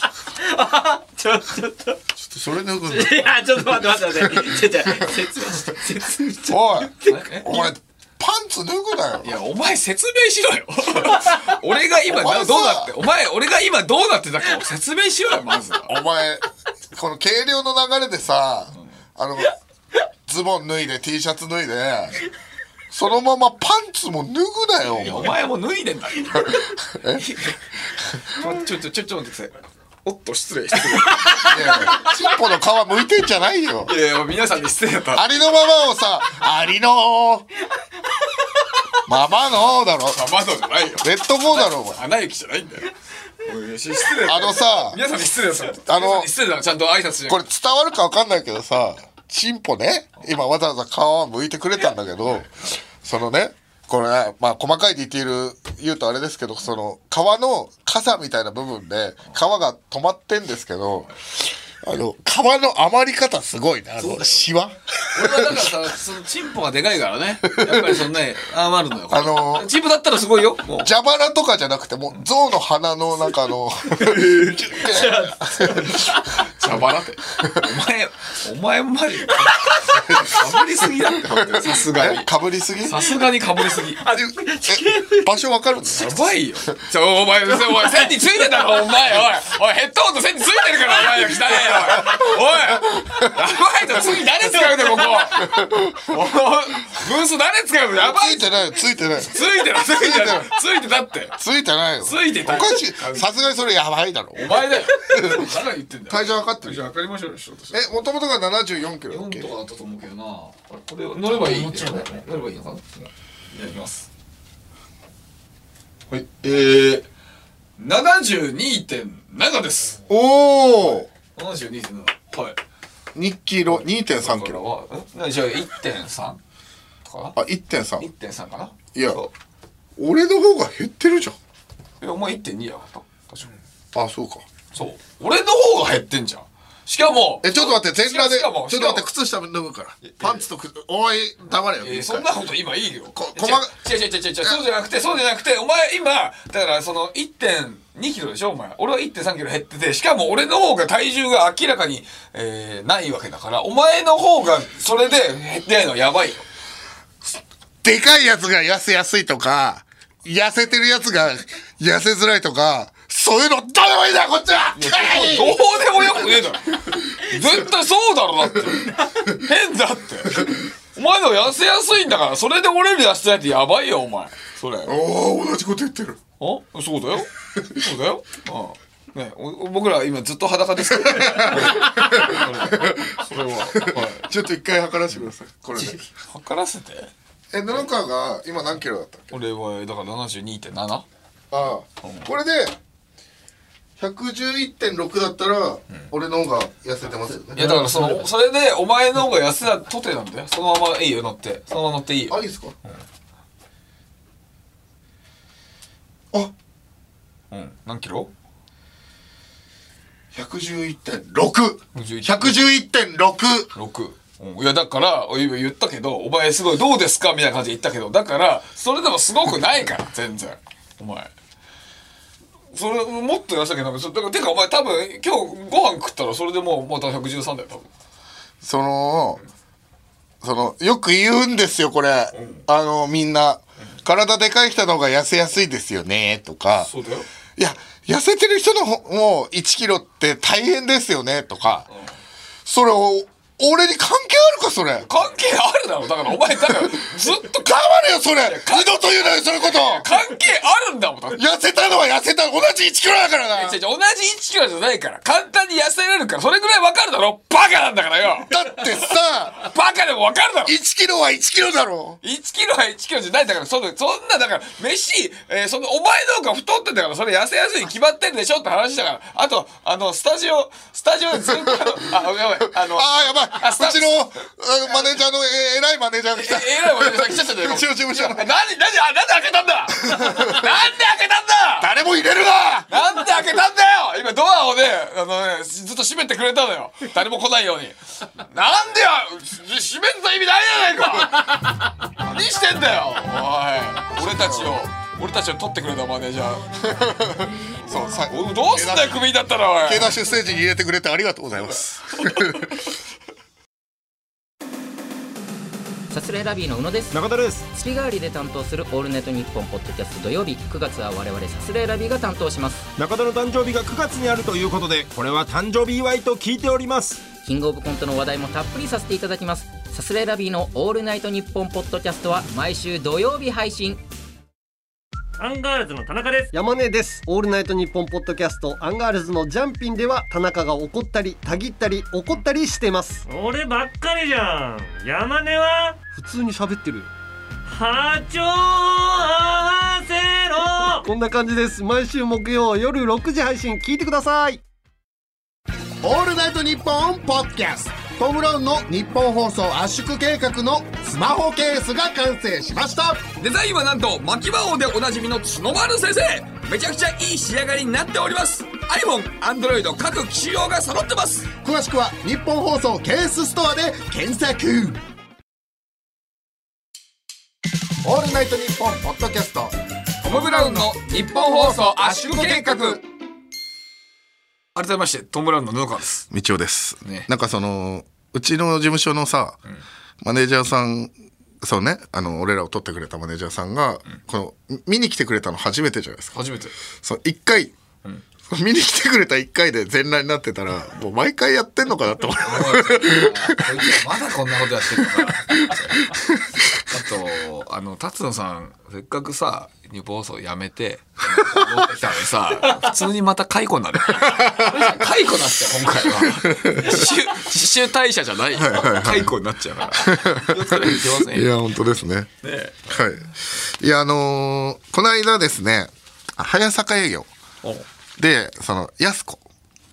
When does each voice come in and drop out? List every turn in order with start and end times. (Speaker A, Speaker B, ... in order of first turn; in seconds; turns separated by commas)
Speaker A: 0.4-2.0, Speaker B: 2.2-5.0, Speaker A: 2.9-7.7, Speaker B: 6.5-9.3, Speaker C: 7.0-7.6, Speaker C: 9.2-15.9, Speaker B: 12.1-12.9, Speaker B: 15.9-19.6, Speaker B: 20.2-22.2, Speaker B: 22.9-25.4, Speaker C: 24.9-27.6, Speaker B: 26.5-27.2, Speaker C: 28.2-32.1, Speaker B: 31.4-33.9, Speaker C: 33.9-35.4, Speaker B: 35.1-37.5, Speaker B: 39.0-40.3, Speaker C: 40.1-47.4, Speaker B: 41.0-42.0, Speaker B: 44.2-45.0, Speaker B: 45.9-46.3, Speaker B: 47.3-65.7, Speaker C: 64.0-64.4, Speaker C: 65.1-70.9, Speaker B: 67.5-68.0, Speaker B: 69.1-69.7, Speaker B: 70.8-76.2, Speaker C: 74.0-75.0, Speaker A: 74.9-76.1, Speaker C: 76.2-82.3, Speaker B: 77.4-77.7, Speaker B: 79.9-83.2, Speaker C: 82.8-84.1, Speaker A: 84.0-85.3, Speaker B: 84.1-86.2, Speaker C: 85.9-101.4, Speaker B: 91.5-93.2, Speaker B: 95.4-96.1, Speaker B: 98.0-100.6, Speaker B: 101.4-105.5, Speaker C: 102.0-103.3, Speaker C: 104.3-107.9, Speaker B: 106.1-106.8, Speaker B: 107.7-109.5, Speaker C: 109.1-114.1, Speaker C: 116.1-117.1, Speaker C: 117.8-120.0, Speaker B: 120.1-121.1, Speaker C: 121.2-122.6, Speaker B: 123.2-124.6, Speaker C: 123.7-126.4, Speaker C: 127.0-127.4, Speaker B: 127.3-128.1, Speaker C: 128.0-129.3, Speaker B: 128.9-129.2, Speaker B: 130.0-131.4, Speaker C: 132.0-133.6, Speaker B: 133.9-134.5, Speaker C: 134.7-139.1, Speaker B: 137.4-142.3, Speaker C: 140.0-140.4, Speaker C: 141.8-156.4, Speaker B: 143.1-143.8, Speaker B: 157.8-166.3, Speaker C: 164.8-175.0, Speaker B: 166.9-167.4, Speaker B: 174.9-176.2, Speaker C: 176.4-184.2, Speaker B: 181.0-183.2, Speaker B: 183.7-186.1, Speaker C: 186.3-187.1, Speaker B: 187.5-189.3, Speaker C: 189.3-191.1, Speaker B: 191.5-192.8, Speaker B: 194.0-198.1, Speaker C: 197.6-202.4, Speaker B: 202.3-202.8, Speaker C: 207.5-208.3, Speaker B: 210.3-213.7, Speaker C: 211.9-212.7, Speaker C: 213.7-221.3, Speaker C: 222.7-227.9, Speaker B: 228.6-229.4, Speaker B: 230.4-236.9, Speaker C: 232.3-232.6, Speaker C: 236.8-237.3, Speaker B: 237.6-241.9, Speaker B: 242.7-245.1, Speaker C: 245.1-247.8, Speaker B: 246.6-250.1, Speaker C: 248.4-251.4, Speaker B: 251.3-253.8, Speaker C: 253.6-259.0, Speaker B: 258.5-259.6, Speaker C: 259.6-260.8, Speaker B: 260.6-262.2, Speaker C: 262.2-274.3, Speaker B: 271.5-272.0, Speaker B: 272.7-278.4, Speaker C: 276.3-281.9, Speaker B: 280.1-280.7, Speaker B: 281.8-282.9, Speaker C: 282.9-296.8, Speaker B: 294.1-294.9, Speaker B: 296.8-299.3, Speaker C: 298.3-300.1, Speaker B: 299.8-302.9, Speaker D: 306.1-307.1, Speaker E: 307.1-307.7, Speaker D: 307.7-312.9, Speaker E: 313.0-317.2, Speaker D: 317.4-324.0, Speaker F: 325.4-326.5, Speaker G: 326.5-333.2, Speaker F: 333.3-336.0, Speaker G: 336.1-337.1, Speaker F: 337.7-341.1, Speaker G: 341.0-344.6, Speaker H: 346.0-353.2, Speaker C: 353.4-361.5, Speaker H: 361.6-365.0, Speaker H: 368.0-369.7, Speaker C: 370.2-373.0, Speaker H: 370.3-373.0, Speaker C: 374.8-376.3, Speaker B: 376.3-379.6, Speaker B: 380.2-386.4, Speaker C: 386.3-386.7, Speaker B: 387.0-387.7, Speaker B: 388.5-393.9, Speaker C: 392.4-396.1, Speaker B: 395.2-396.7, Speaker C: 396.9-411.5, Speaker B: 404.2-404.9, Speaker B: 406.1-407.1, Speaker B: 408.5-409.3, Speaker B: 409.9-412.3, Speaker C: 412.4-412.8, Speaker B: 412.9-417.3, Speaker B: 418.2-419.4